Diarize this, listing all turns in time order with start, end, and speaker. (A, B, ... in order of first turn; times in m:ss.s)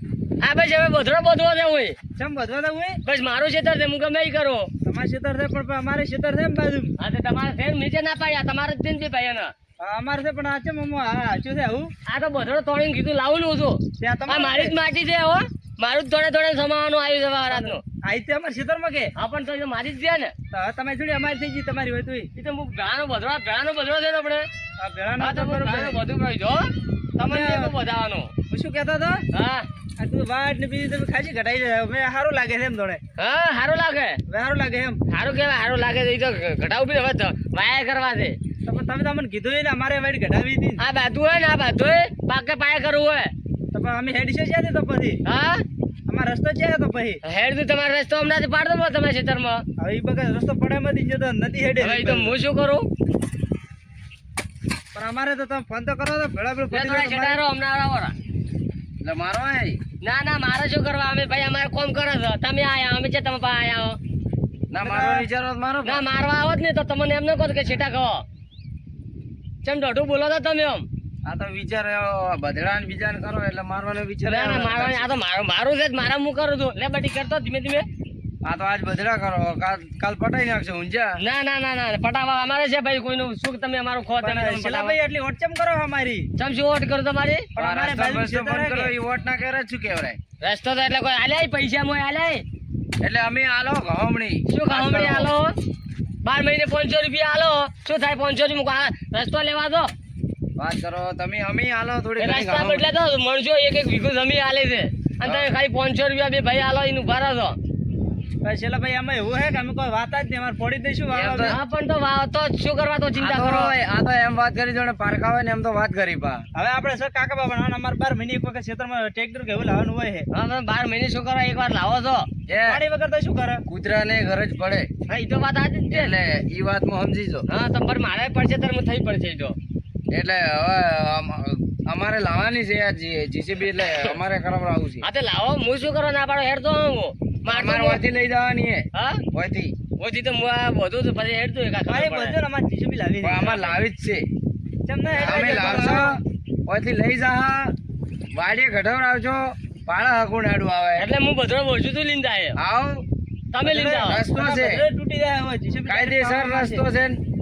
0:00.4-0:02.0 A
0:02.2-0:03.0 B
0:03.0-0:04.7 A
0:04.9-0:06.9 B
0:07.0-0:09.5 A
0:09.8-0:11.9 B
0:12.1-0:17.8 A
0:14.0-0:14.7 B
0:17.5-0:19.1 B
0:19.2-0:20.3 A
0:20.5-0:22.3 B
0:22.4-0:24.5 A
0:24.8-0:26.0 B
0:25.2-0:28.3 A
0:27.2-0:27.7 B
0:28.5-0:29.2 B
0:29.3-0:29.7 A
0:30.0-0:33.0 B
0:33.2-0:34.2 A
0:34.3-0:35.0 B
0:35.1-0:38.4 A
0:38.6-0:40.8 B
0:40.8-0:43.3 A
0:43.7-0:45.2 B
0:45.2-0:45.6 A
0:46.1-0:47.2 B
0:47.2-0:49.6 A
0:49.8-0:52.4 B
0:51.8-0:52.9 A
0:54.9-0:57.4 B
0:56.7-0:58.1 A
0:59.0-0:59.8 C
1:00.0-1:04.0 A
1:04.7-1:06.0 C
1:04.8-1:05.2 B
1:05.8-1:08.2 A
1:09.6-1:10.9 A
1:11.2-1:15.1 C
1:14.3-1:17.8 A
1:18.4-1:21.2 C
1:21.2-1:25.0 A
1:24.2-1:26.3 B
1:26.4-1:27.5 A
1:27.6-1:28.9 B
1:27.6-1:30.2 C
1:30.4-1:32.4 A
1:33.0-1:35.3 C
1:34.5-1:35.5 A
1:36.2-1:39.9 A
1:40.6-1:42.9 C
1:42.2-1:47.6 A
1:48.4-1:51.6 B
1:51.1-1:51.6 C
1:51.4-1:53.7 A
1:53.2-1:56.4 C
1:56.6-2:00.3 B
2:00.3-2:02.3 A
2:02.5-2:02.8 C
2:02.5-2:03.6 B
2:03.7-2:04.9 C
2:05.1-2:06.2 A
2:05.9-2:07.5 C
2:07.5-2:09.6 A
2:10.1-2:15.0 C
2:13.7-2:14.2 A
2:15.0-2:18.0 A
2:17.5-2:19.7 C
2:18.9-2:19.2 A
2:20.0-2:22.4 A
2:21.9-2:23.8 B
2:23.2-2:24.2 C
2:24.9-2:26.2 B
2:25.1-2:27.8 C
2:28.3-2:31.1 C
2:31.0-2:32.6 A
2:32.6-2:33.0 C
2:33.5-2:34.2 A
2:33.6-2:36.8 B
2:34.0-2:34.8 C
2:35.9-2:37.2 C